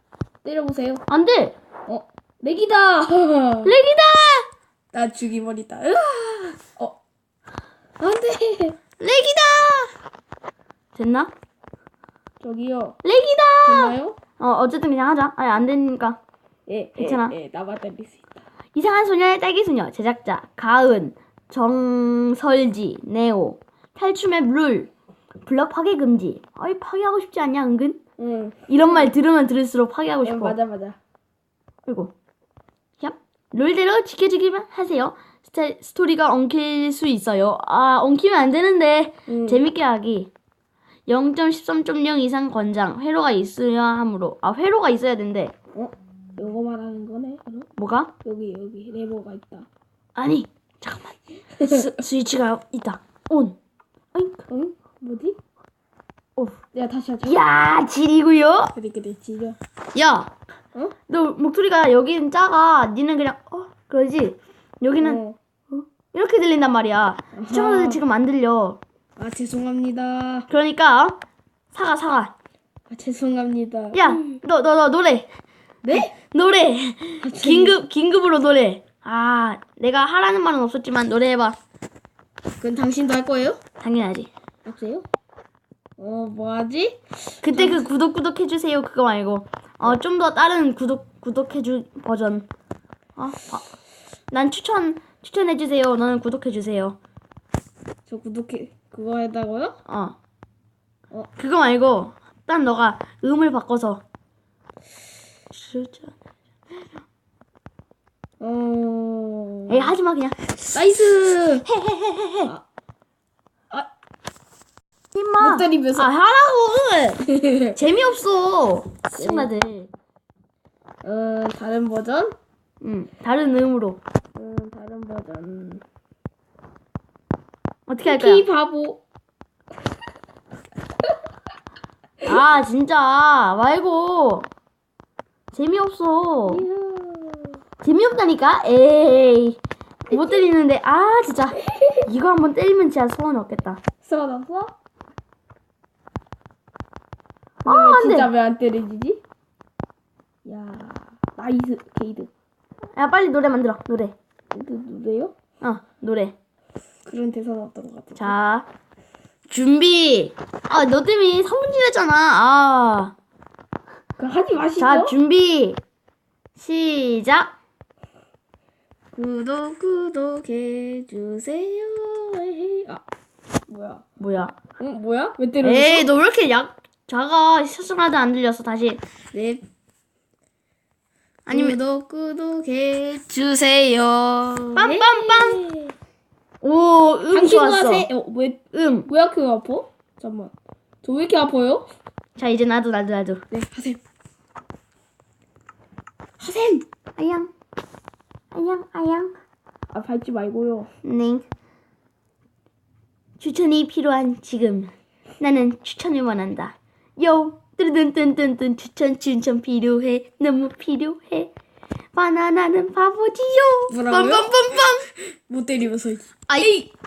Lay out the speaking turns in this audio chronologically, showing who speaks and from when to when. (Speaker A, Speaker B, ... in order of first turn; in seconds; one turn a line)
Speaker A: 0.4-1.0
Speaker B: 1.1-1.5
Speaker A: 1.9-3.7
Speaker B: 3.6-4.5
Speaker A: 4.9-7.0
Speaker A: 8.0-8.8
Speaker B: 9.0-9.9
Speaker B: 10.9-11.3
Speaker A: 12.4-13.0
Speaker B: 13.0-16.2
Speaker A: 13.6-14.2
Speaker A: 16.7-18.4
Speaker B: 17.0-17.3
Speaker B: 18.7-24.9
Speaker B: 25.4-28.0
Speaker A: 28.2-29.1
Speaker B: 28.7-30.6
Speaker A: 30.2-31.0
Speaker B: 31.9-32.1
Speaker B: 33.0-40.3
Speaker A: 39.3-39.6
Speaker B: 41.1-45.5
Speaker A: 45.7-47.7
Speaker B: 47.8-48.1
Speaker A: 48.2-49.7
Speaker B: 50.1-53.6
Speaker B: 54.1-54.4
Speaker A: 54.5-55.4
Speaker A: 56.7-57.4
Speaker B: 57.2-58.7
Speaker A: 58.7-59.6
Speaker B: 59.9-60.3
Speaker B: 61.1-68.8
Speaker A: 65.0-65.4
Speaker A: 67.3-68.0
Speaker A: 69.2-70.5
Speaker B: 70.5-71.2
Speaker B: 71.7-72.3
Speaker A: 72.9-74.3
Speaker B: 73.9-75.3
Speaker A: 75.8-76.1
Speaker B: 75.9-81.6
Speaker A: 77.2-77.8
Speaker A: 82.6-83.6
Speaker B: 83.8-84.3
Speaker A: 84.6-85.1
Speaker A: 86.0-87.8
Speaker B: 87.4-92.5
Speaker B: 93.2-93.7
Speaker B: 94.3-97.0
Speaker A: 98.0-99.8
Speaker B: 99.9-100.2
Speaker B: 101.4-104.0
Speaker B: 105.5-106.1
Speaker A: 108.4-109.9
Speaker B: 109.7-110.5
Speaker A: 110.7-111.7
Speaker B: 111.7-112.5
Speaker B: 115.1-117.2
Speaker A: 115.4-116.1
Speaker A: 117.2-117.7
Speaker B: 117.7-119.9
Speaker A: 119.1-119.5
Speaker A: 121.0-122.3
Speaker B: 122.8-124.0
Speaker A: 124.3-125.8
Speaker B: 127.9-128.4
Speaker A: 128.0-129.0
Speaker B: 132.2-134.5
Speaker B: 135.5-136.7
Speaker A: 136.5-137.6
Speaker B: 137.8-139.6
Speaker B: 140.1-143.8
Speaker A: 140.1-140.5
Speaker A: 141.6-142.0
Speaker A: 144.0-144.7
Speaker B: 147.6-148.3
Speaker A: 147.6-149.2
Speaker A: 150.4-152.3
Speaker B: 152.9-154.1
Speaker A: 154.5-155.3
Speaker B: 155.6-156.3
Speaker A: 157.0-158.3
Speaker B: 158.2-158.7
Speaker B: 159.5-163.1
Speaker A: 164.2-165.1
Speaker B: 164.8-165.8
Speaker B: 166.6-167.5
Speaker A: 169.1-173.0
Speaker A: 173.7-174.0
Speaker B: 174.2-174.6
Speaker A: 174.8-176.1
Speaker B: 175.6-179.0
Speaker A: 179.3-179.6
Speaker B: 181.5-181.8
Speaker A: 181.5-185.9
Speaker B: 184.8-185.6
Speaker B: 186.6-188.1
Speaker A: 187.3-191.9
Speaker B: 188.7-189.1
Speaker B: 192.3-193.4
Speaker A: 193.5-194.0
Speaker A: 196.4-196.8
Speaker B: 197.2-197.5
Speaker B: 198.5-199.3
Speaker A: 199.9-200.9
Speaker B: 201.0-201.4
Speaker B: 203.4-211.5
Speaker B: 212.1-215.1
Speaker A: 213.9-214.5
Speaker A: 215.1-216.7
Speaker B: 216.5-216.9